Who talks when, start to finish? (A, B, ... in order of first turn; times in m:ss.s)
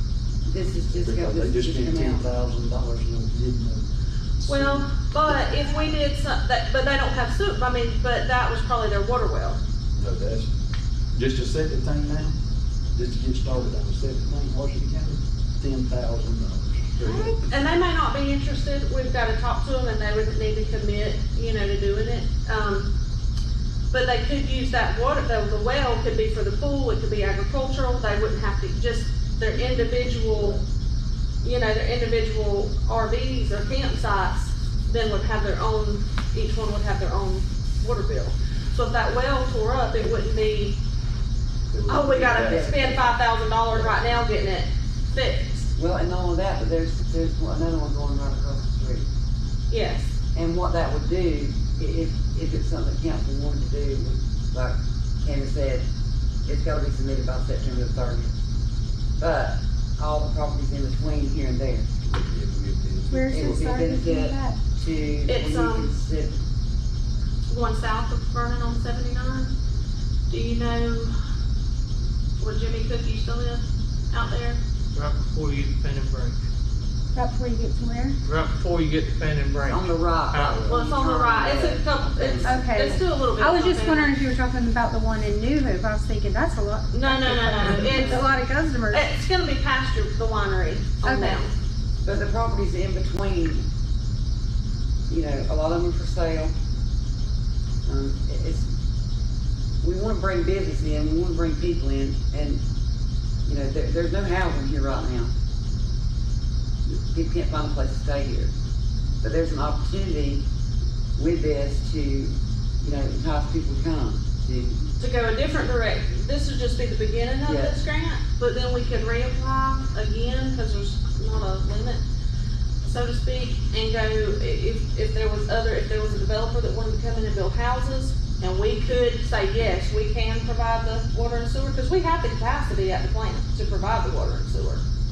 0:00.4-0:02.2 A
0:00.9-0:03.8 B
0:04.4-0:04.9 B
0:04.5-0:09.6 C
0:09.9-0:10.5 B
0:11.1-0:12.4 B
0:12.9-0:17.4 B
0:17.0-0:22.9 C
0:23.9-0:30.6 C
0:31.4-0:40.8 C
0:41.7-0:43.1 B
0:41.9-0:45.7 C
0:42.0-0:43.0 A
0:43.7-0:44.2 B
0:45.8-0:49.0 A
0:49.7-0:50.1 C
0:50.3-0:55.8 A
0:56.4-0:58.3 A
0:59.2-1:01.9 A
1:02.1-1:03.7 B
1:03.1-1:04.6 D
1:03.3-1:06.3 A
1:05.3-1:05.9 C
1:07.5-1:09.5 C
1:10.3-1:11.1 C
1:12.4-1:14.6 C
1:15.0-1:16.0 E
1:17.1-1:18.2 D
1:18.3-1:19.6 E
1:19.6-1:23.0 A
1:20.3-1:20.7 E
1:20.6-1:24.1 C
1:22.4-1:29.1 D
1:26.9-1:28.3 C
1:28.9-1:31.5 C
1:31.0-1:31.4 D
1:32.0-1:33.6 A
1:35.1-1:36.5 A
1:37.8-1:38.7 A
1:39.8-1:42.6 A
1:43.4-1:45.3 A
1:46.9-1:48.5 A
1:49.2-1:50.4 A
1:51.2-1:54.9 A
1:55.0-2:02.0 C
1:57.4-1:57.8 A
2:02.8-2:14.8 C